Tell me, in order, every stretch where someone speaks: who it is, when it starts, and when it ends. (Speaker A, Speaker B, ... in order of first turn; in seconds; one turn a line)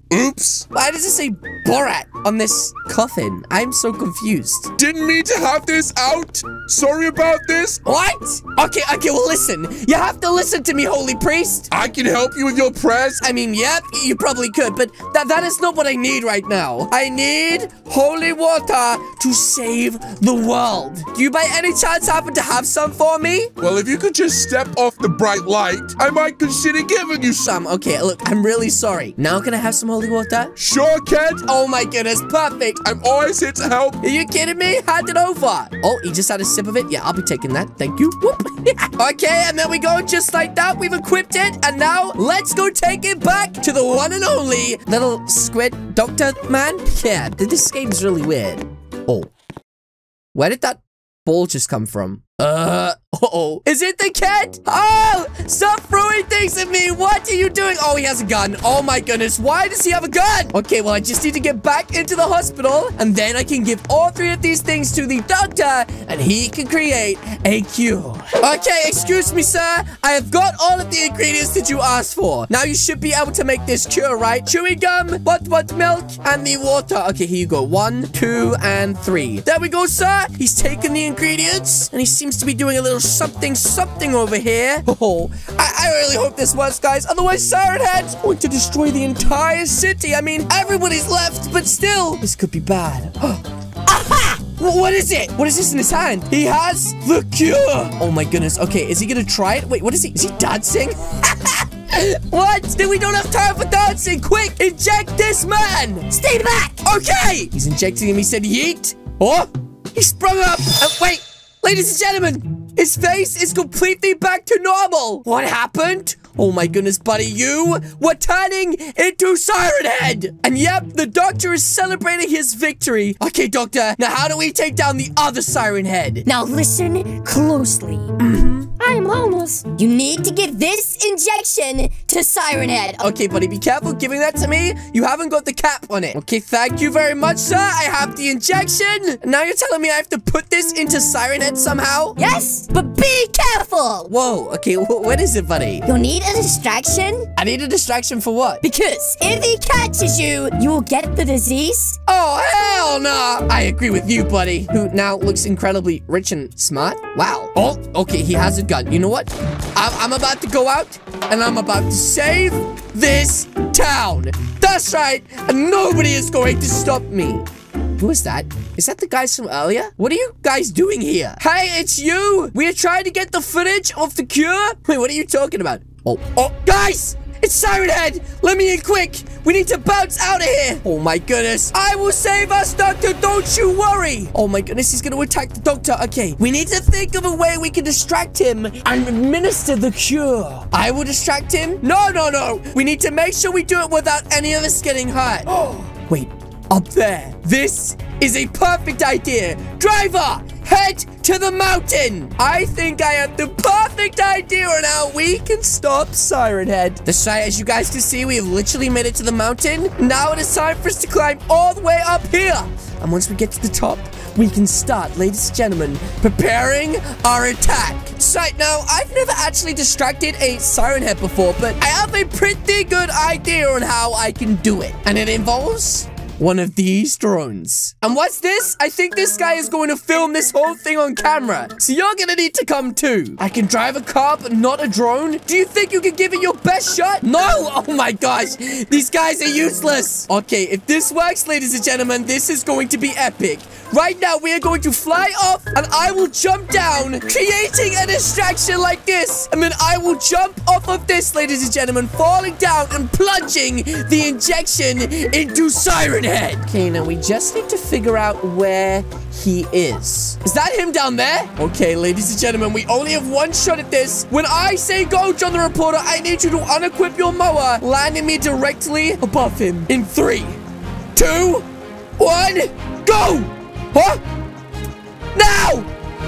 Speaker A: 0.1-0.6
Speaker B: 0.7-4.7
Speaker A: 4.8-7.8
Speaker B: 7.8-11.7
Speaker A: 11.7-13.2
Speaker B: 13.2-23.5
Speaker A: 23.6-27.4
Speaker B: 27.3-30.6
Speaker A: 30.6-31.4
Speaker B: 31.4-32.8
Speaker A: 32.8-34.0
Speaker B: 34.0-49.3
Speaker B: 50.3-106.2
Speaker C: 106.1-106.8
Speaker B: 106.8-126.3
Speaker C: 126.2-133.1
Speaker B: 128.2-128.7
Speaker B: 133.0-142.2
Speaker C: 142.2-144.1
Speaker B: 144.1-145.8
Speaker C: 145.8-147.3
Speaker B: 147.3-148.6
Speaker C: 148.6-152.0
Speaker B: 152.1-167.5
Speaker B: 168.0-270.6
Speaker B: 271.1-271.6
Speaker B: 272.2-274.2
Speaker B: 275.3-275.9